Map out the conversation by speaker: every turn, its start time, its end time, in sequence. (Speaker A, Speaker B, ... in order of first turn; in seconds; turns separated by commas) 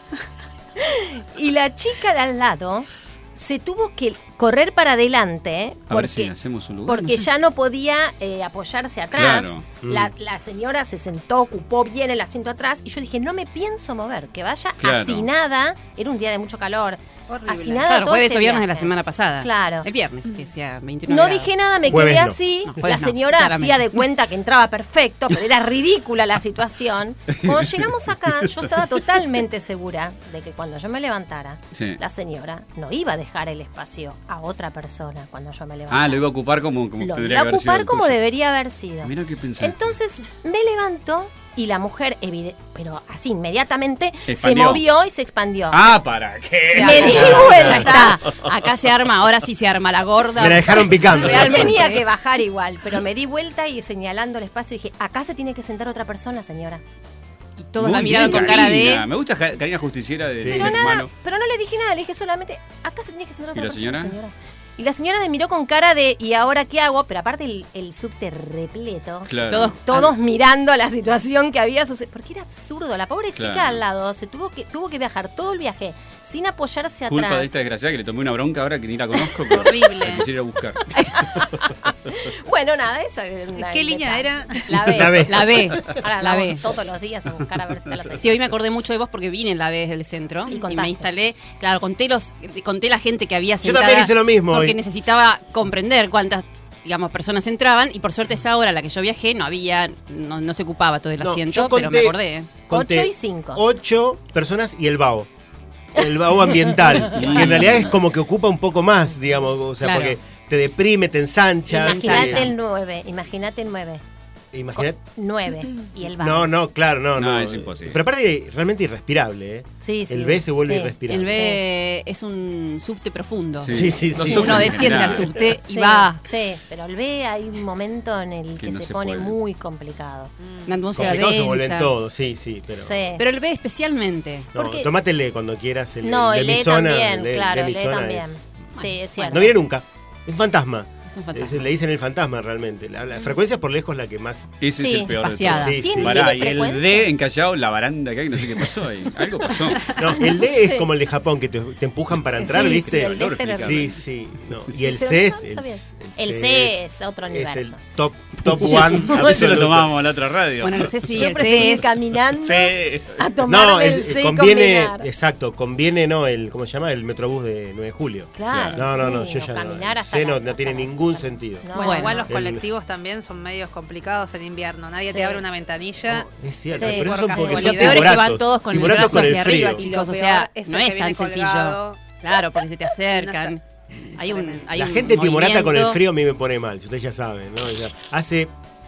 Speaker A: 0.8-6.3, Speaker B: 5.9-7.2, Speaker A: 6.8-19.9, Speaker B: 9.1-9.8, Speaker C: 9.8-10.1, Speaker B: 14.8-15.3, Speaker D: 17.3-17.8, Speaker E: 17.8-24.0, Speaker A: 21.1-36.3, Speaker C: 21.9-22.4, Speaker B: 27.3-27.9, Speaker B: 31.7-32.0, Speaker B: 35.9-38.1, Speaker A: 37.0-46.0, Speaker B: 39.0-40.0, Speaker B: 44.3-44.8, Speaker B: 45.7-48.1, Speaker A: 46.7-48.2, Speaker E: 46.7-51.6, Speaker C: 47.0-47.8, Speaker C: 50.4-51.9, Speaker A: 51.1-56.8, Speaker D: 51.7-52.0, Speaker E: 57.6-59.0, Speaker B: 57.8-61.1, Speaker A: 58.2-58.7, Speaker C: 60.4-60.9, Speaker A: 60.5-77.5, Speaker B: 63.5-64.1, Speaker B: 69.3-69.7, Speaker E: 69.5-70.1, Speaker B: 73.3-73.8, Speaker B: 77.1-81.2, Speaker D: 79.5-80.2, Speaker A: 80.9-88.4, Speaker D: 83.5-85.1, Speaker C: 84.9-85.5, Speaker E: 85.2-86.6, Speaker E: 88.1-102.5, Speaker A: 90.5-91.1, Speaker C: 93.6-94.7, Speaker C: 101.2-102.2, Speaker C: 102.7-105.3, Speaker A: 102.7-103.6, Speaker C: 106.0-112.5, Speaker A: 106.0-107.7, Speaker B: 107.1-108.0, Speaker E: 109.8-110.2, Speaker A: 111.7-114.0, Speaker E: 111.7-112.5, Speaker C: 114.5-115.0, Speaker A: 114.8-116.5, Speaker C: 116.2-121.3, Speaker B: 117.2-118.0, Speaker A: 119.8-121.6, Speaker E: 121.1-126.2, Speaker B: 123.6-125.3, Speaker C: 123.7-125.2, Speaker A: 124.4-124.6, Speaker A: 125.6-130.3, Speaker B: 128.6-129.3, Speaker D: 130.4-130.7, Speaker E: 130.7-131.9, Speaker C: 130.9-133.1, Speaker A: 132.8-133.2, Speaker E: 133.2-134.5, Speaker C: 134.5-138.7, Speaker A: 134.6-134.9, Speaker A: 136.0-139.6, Speaker E: 138.8-139.5, Speaker C: 139.3-144.5, Speaker E: 141.1-141.7, Speaker B: 144.6-150.0, Speaker A: 144.7-147.1, Speaker E: 145.2-145.8, Speaker C: 145.5-146.6, Speaker C: 149.9-160.2, Speaker A: 150.1-150.9, Speaker A: 152.4-153.9, Speaker B: 152.6-154.0, Speaker A: 154.7-157.8, Speaker B: 158.5-161.6, Speaker A: 158.6-159.6, Speaker E: 160.6-161.9, Speaker A: 161.1-165.1, Speaker B: 162.4-163.2, Speaker C: 163.4-171.7, Speaker A: 168.3-172.3, Speaker B: 168.5-168.8, Speaker D: 171.7-178.1, Speaker E: 171.8-172.2, Speaker C: 172.2-172.6, Speaker A: 174.9-175.4, Speaker C: 176.1-179.8, Speaker A: 176.7-178.1, Speaker E: 177.4-183.6, Speaker D: 178.8-182.0, Speaker D: 183.1-183.6, Speaker D: 184.1-184.6, Speaker E: 184.1-186.0, Speaker C: 184.7-188.5